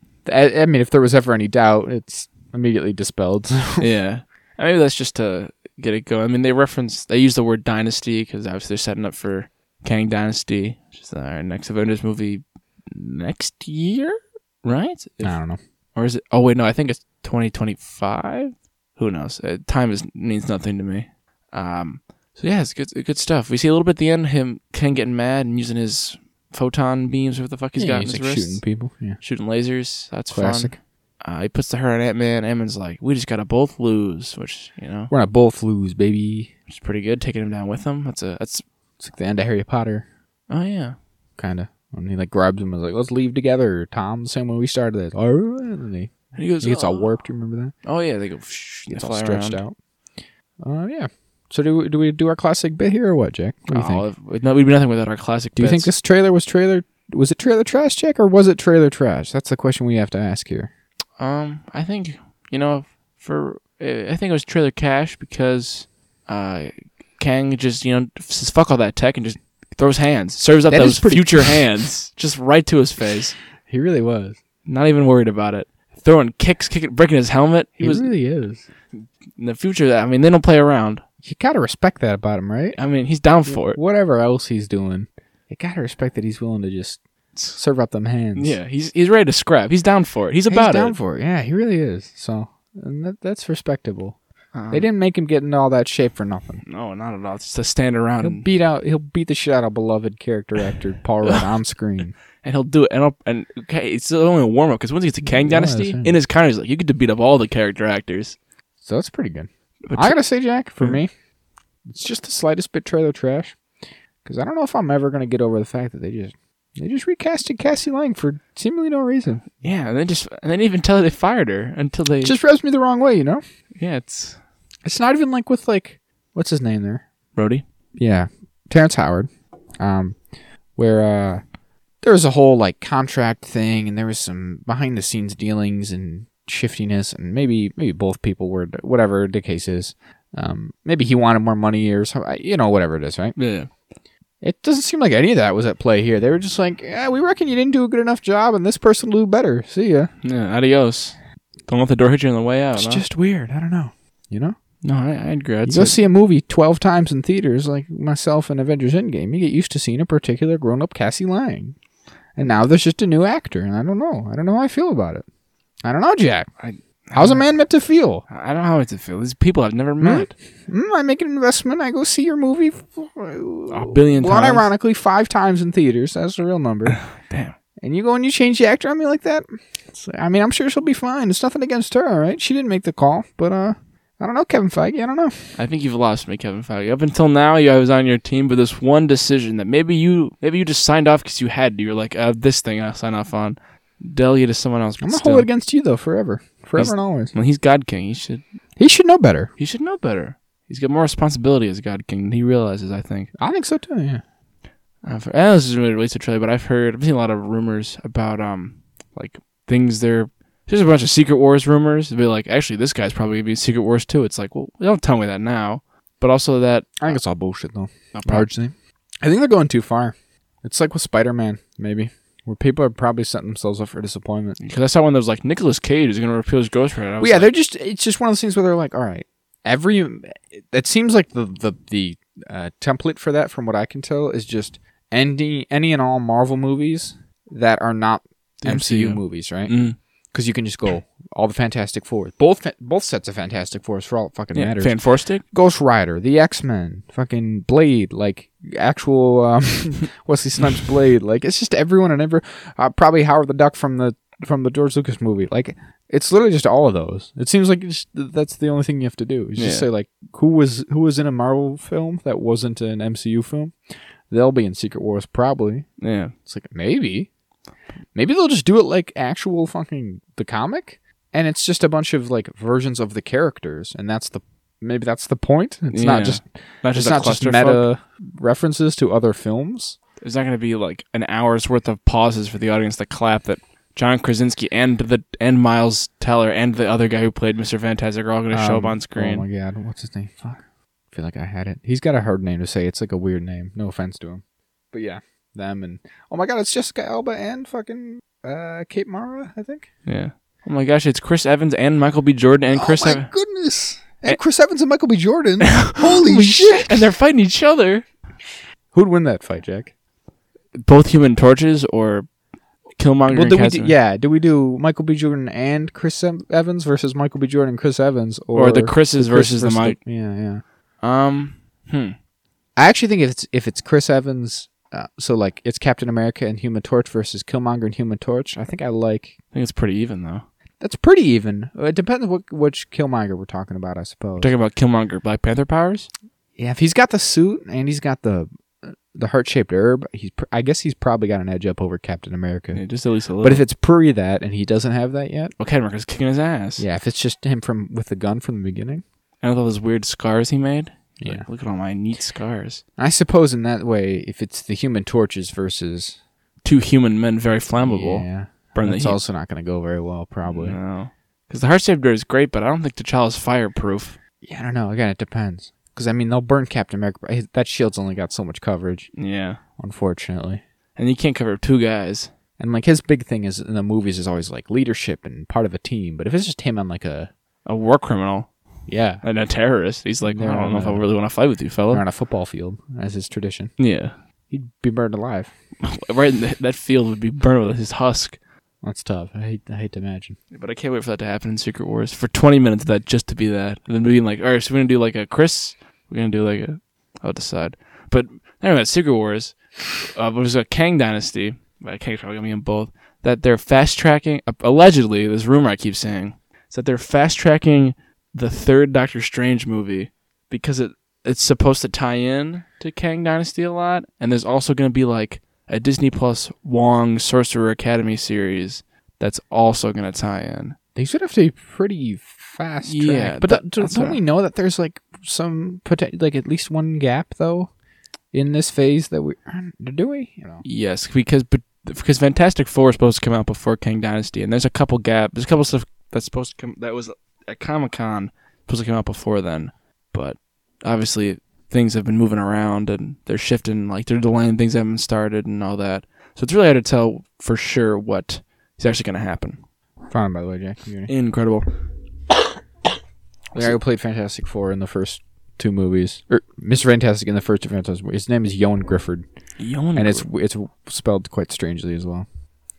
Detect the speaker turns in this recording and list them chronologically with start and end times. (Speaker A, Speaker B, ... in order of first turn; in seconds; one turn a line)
Speaker A: 0.2-3.9
Speaker B: 3.8-15.4
Speaker A: 15.2-15.6
Speaker B: 15.9-28.6
Speaker A: 27.8-29.2
Speaker B: 29.2-35.1
Speaker A: 30.3-30.8
Speaker A: 35.1-36.5
Speaker B: 36.7-38.6
Speaker A: 39.0-40.0
Speaker B: 40.5-41.0
Speaker A: 41.4-47.7
Speaker B: 46.3-47.1
Speaker B: 47.8-49.6
Speaker A: 48.9-49.8
Speaker A: 50.6-54.0
Speaker B: 53.7-55.9
Speaker A: 55.5-60.7
Speaker B: 61.2-73.4
Speaker A: 70.7-71.6
Speaker A: 73.7-74.4
Speaker B: 74.7-78.1
Speaker A: 77.8-78.6
Speaker B: 78.9-81.0
Speaker A: 81.2-82.8
Speaker B: 82.8-83.8
Speaker A: 83.5-88.6
Speaker B: 88.3-91.0
Speaker A: 90.5-94.2
Speaker B: 94.5-94.9
Speaker A: 94.7-96.6
Speaker B: 96.7-98.4
Speaker A: 98.2-102.1
Speaker B: 102.4-108.4
Speaker A: 105.2-106.1
Speaker A: 108.8-111.1
Speaker B: 109.9-110.2
Speaker A: 111.8-113.6
Speaker A: 114.2-119.5
Speaker B: 119.6-122.3
Speaker A: 122.2-123.4
Speaker B: 123.8-124.4
Speaker A: 124.8-127.0
Speaker B: 127.3-127.6
Speaker A: 128.0-129.3
Speaker A: 129.8-130.2
Speaker A: 130.7-131.4
Speaker A: 132.0-143.3
Speaker B: 143.3-143.7
Speaker A: 144.4-150.1
Speaker B: 150.2-151.2
Speaker B: 151.7-153.0
Speaker A: 152.7-154.6
Speaker B: 154.8-156.0
Speaker A: 155.7-161.7
Speaker A: 162.3-165.2
Speaker A: 165.8-166.5
Speaker B: 166.6-167.5
Speaker A: 167.1-168.2
Speaker B: 168.3-170.3
Speaker A: 170.0-177.0
Speaker B: 173.7-174.7
Speaker B: 176.9-177.5
Speaker A: 177.8-185.6
Speaker B: 185.6-195.5
Speaker A: 195.0-197.3
Speaker B: 196.8-198.4
Speaker A: 198.8-199.5
Speaker B: 199.6-203.3
Speaker A: 203.4-204.2
Speaker B: 205.0-217.2
Speaker A: 217.0-224.6
Speaker B: 218.1-218.5
Speaker B: 224.6-227.5
Speaker A: 227.2-239.8
Speaker B: 238.6-239.9
Speaker A: 240.3-263.7
Speaker B: 244.5-245.4
Speaker B: 259.6-259.9
Speaker A: 264.3-265.9
Speaker B: 266.0-266.3
Speaker A: 266.4-267.3
Speaker A: 268.1-280.0
Speaker B: 275.9-277.9
Speaker B: 280.2-289.4
Speaker A: 288.5-299.9
Speaker B: 300.1-303.3
Speaker A: 302.7-307.0
Speaker B: 305.6-308.1
Speaker A: 308.9-309.9
Speaker B: 310.7-312.3
Speaker B: 312.9-313.9
Speaker A: 313.3-320.6
Speaker B: 318.5-320.0
Speaker B: 321.0-322.1
Speaker A: 322.8-329.3
Speaker B: 329.5-330.4
Speaker A: 330.8-334.5
Speaker B: 334.4-336.1
Speaker A: 336.6-342.8
Speaker B: 342.7-343.6
Speaker A: 343.4-345.5
Speaker B: 345.6-346.8
Speaker A: 346.8-349.0
Speaker B: 349.4-352.8
Speaker A: 351.2-351.4
Speaker A: 353.0-356.2
Speaker B: 356.6-359.2
Speaker A: 357.7-360.8
Speaker B: 360.4-364.2
Speaker A: 364.4-369.1
Speaker B: 369.1-369.6
Speaker A: 369.8-370.6
Speaker B: 370.9-372.3
Speaker A: 372.6-377.3
Speaker B: 377.6-378.5
Speaker A: 378.9-379.2
Speaker B: 379.2-382.0
Speaker A: 380.2-381.1
Speaker A: 381.9-383.8
Speaker B: 383.8-384.1
Speaker A: 384.5-385.5
Speaker B: 385.8-388.4
Speaker A: 388.8-390.4
Speaker B: 390.5-420.8
Speaker A: 420.9-427.7
Speaker B: 422.8-424.2
Speaker A: 428.3-430.6
Speaker B: 430.6-449.6
Speaker A: 450.1-451.1
Speaker B: 451.1-451.6
Speaker A: 453.5-459.2
Speaker B: 459.6-460.3
Speaker A: 459.9-462.2